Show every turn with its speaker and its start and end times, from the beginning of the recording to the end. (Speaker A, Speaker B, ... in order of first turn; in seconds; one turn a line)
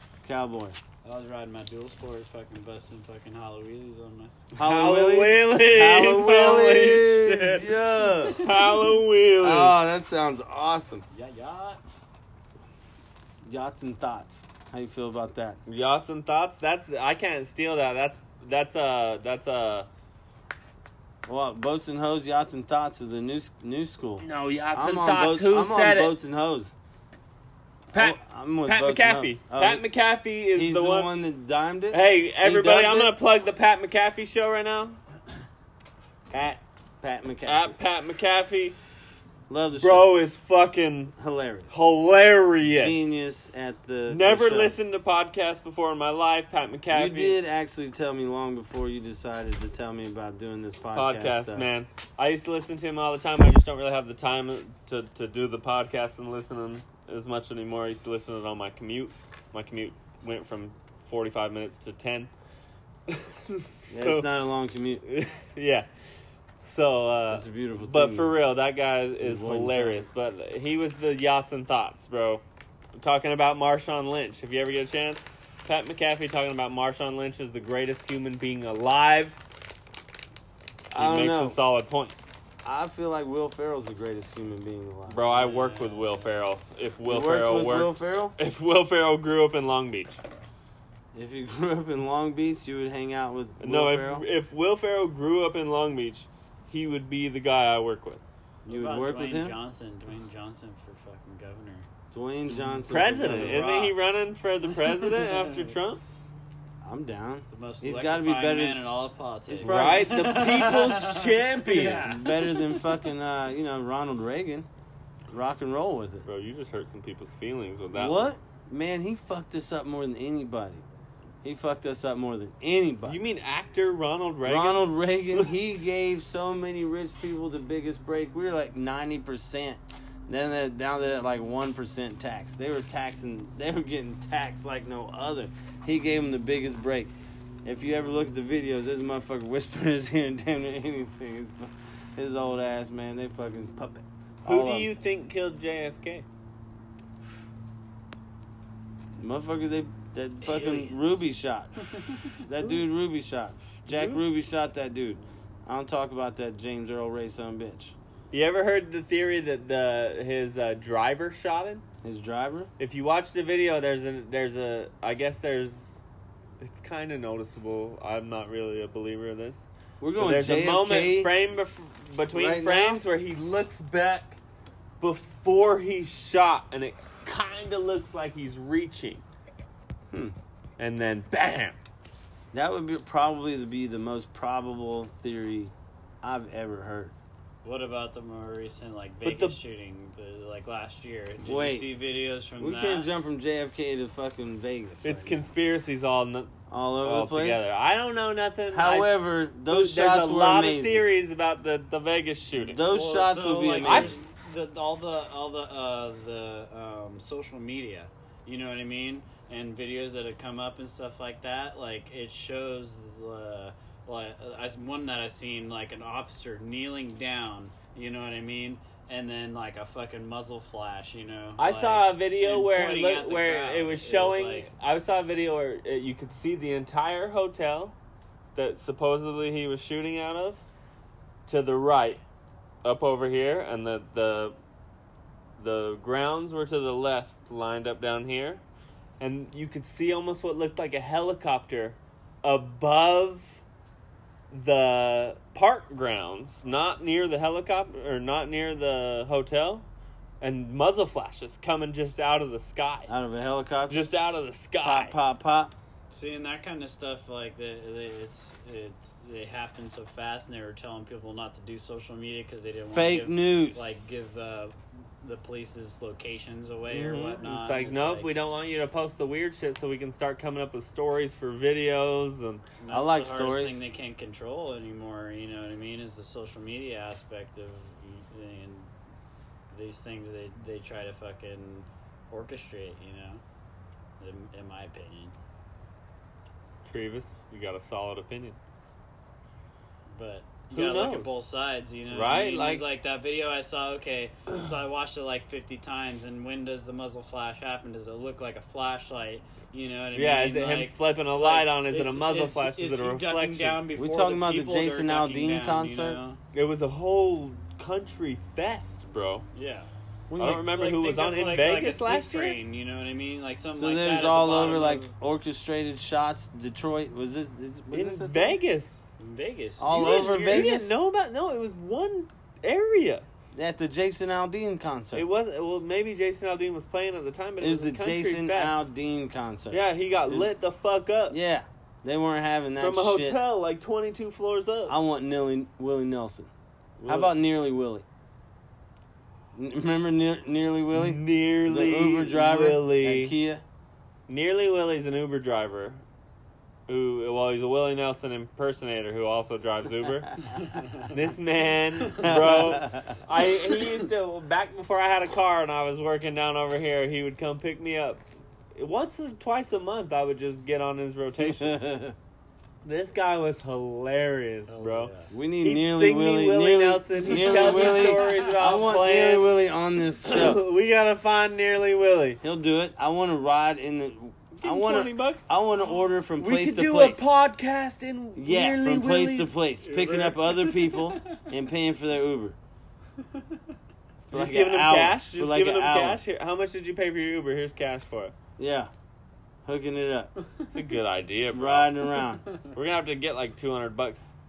Speaker A: 0.2-0.8
Speaker B: 1.0-4.6
Speaker A: 4.5-8.5
Speaker C: 4.6-7.7
Speaker C: 8.3-9.7
Speaker A: 9.4-11.0
Speaker B: 11.1-11.8
Speaker A: 13.4-15.6
Speaker C: 15.7-19.9
Speaker A: 21.2-26.7
Speaker C: 24.2-26.1
Speaker A: 27.9-29.8
Speaker C: 27.9-31.1
Speaker A: 30.5-33.1
Speaker C: 31.9-35.0
Speaker A: 36.3-37.7
Speaker C: 37.4-38.8
Speaker A: 39.5-40.2
Speaker C: 39.8-41.1
Speaker A: 41.2-41.7
Speaker C: 41.7-43.2
Speaker A: 42.6-44.8
Speaker C: 44.1-47.4
Speaker A: 46.9-51.7
Speaker C: 50.9-62.3
Speaker C: 63.1-64.3
Speaker A: 63.9-65.0
Speaker C: 65.0-65.9
Speaker C: 66.6-72.4
Speaker A: 67.3-68.3
Speaker A: 69.2-70.1
Speaker C: 72.9-79.4
Speaker C: 80.9-82.1
Speaker A: 80.9-81.6
Speaker A: 82.6-85.3
Speaker C: 85.1-90.2
Speaker B: 85.2-86.4
Speaker A: 87.0-88.4
Speaker A: 91.1-94.2
Speaker C: 93.6-98.2
Speaker B: 98.6-101.8
Speaker A: 98.7-99.5
Speaker A: 102.1-103.9
Speaker B: 102.6-103.9
Speaker C: 102.9-106.0
Speaker B: 104.8-105.5
Speaker A: 106.8-108.8
Speaker B: 107.5-112.8
Speaker A: 109.5-110.4
Speaker C: 109.6-112.1
Speaker A: 112.0-114.7
Speaker A: 115.3-116.2
Speaker C: 116.2-118.3
Speaker A: 117.9-120.8
Speaker A: 121.4-123.2
Speaker C: 123.0-125.5
Speaker A: 124.4-137.1
Speaker A: 137.6-144.9
Speaker C: 144.4-146.2
Speaker A: 149.2-157.9
Speaker B: 150.5-150.9
Speaker C: 153.9-154.2
Speaker C: 158.3-161.8
Speaker A: 162.0-162.7
Speaker C: 162.8-166.0
Speaker C: 166.6-169.6
Speaker A: 170.0-171.3
Speaker C: 170.2-174.4
Speaker A: 172.3-173.0
Speaker C: 175.0-179.2
Speaker C: 180.8-181.8
Speaker A: 182.5-187.1
Speaker B: 187.6-193.1
Speaker C: 189.2-189.6
Speaker A: 191.4-191.9
Speaker A: 192.6-195.5
Speaker C: 195.0-196.5
Speaker A: 196.7-197.7
Speaker C: 197.0-202.8
Speaker A: 198.7-201.1
Speaker A: 202.6-204.2
Speaker B: 202.9-224.7
Speaker C: 203.8-204.3
Speaker C: 221.6-227.9
Speaker C: 228.6-230.6
Speaker C: 231.5-232.2
Speaker C: 232.8-234.6
Speaker C: 235.6-238.6
Speaker C: 239.2-243.5
Speaker C: 244.5-249.8
Speaker C: 250.4-253.1
Speaker A: 253.1-254.0
Speaker C: 253.9-255.2
Speaker A: 254.8-255.7
Speaker B: 256.1-268.3
Speaker A: 262.9-263.8
Speaker C: 266.9-272.6
Speaker B: 272.8-278.9
Speaker A: 272.9-273.8
Speaker B: 279.7-283.4
Speaker B: 284.2-285.3
Speaker C: 286.8-288.6
Speaker B: 290.1-306.4
Speaker C: 290.7-291.4
Speaker C: 292.1-292.8
Speaker C: 300.1-303.8
Speaker A: 303.9-306.2
Speaker C: 306.5-309.4
Speaker B: 309.5-309.9
Speaker A: 310.3-310.7
Speaker C: 310.3-312.6
Speaker B: 310.6-315.1
Speaker A: 313.7-318.6
Speaker C: 317.9-319.1
Speaker B: 319.2-319.9
Speaker A: 319.8-321.0
Speaker C: 319.9-323.2
Speaker A: 323.5-325.2
Speaker C: 325.1-328.8
Speaker A: 327.6-330.5
Speaker C: 329.7-331.4
Speaker A: 331.3-333.4
Speaker C: 332.8-334.9
Speaker A: 334.9-336.5
Speaker C: 337.0-337.3
Speaker A: 337.0-338.0
Speaker A: 339.5-343.6
Speaker C: 340.9-343.3
Speaker C: 344.3-346.0
Speaker C: 346.9-350.4
Speaker C: 350.9-358.2
Speaker A: 352.1-353.2
Speaker C: 358.8-361.8
Speaker A: 361.4-362.1
Speaker C: 362.8-365.1
Speaker B: 364.7-365.3
Speaker A: 365.3-370.6
Speaker C: 365.6-369.5
Speaker B: 367.3-368.5
Speaker C: 370.2-372.4
Speaker A: 372.4-377.3
Speaker C: 374.6-375.5
Speaker C: 376.4-379.5
Speaker A: 378.3-382.6
Speaker B: 379.8-381.4
Speaker A: 384.3-386.2
Speaker C: 384.3-388.3
Speaker A: 388.6-388.9
Speaker A: 389.6-390.3
Speaker C: 390.7-392.0
Speaker A: 391.5-392.4
Speaker C: 392.7-394.3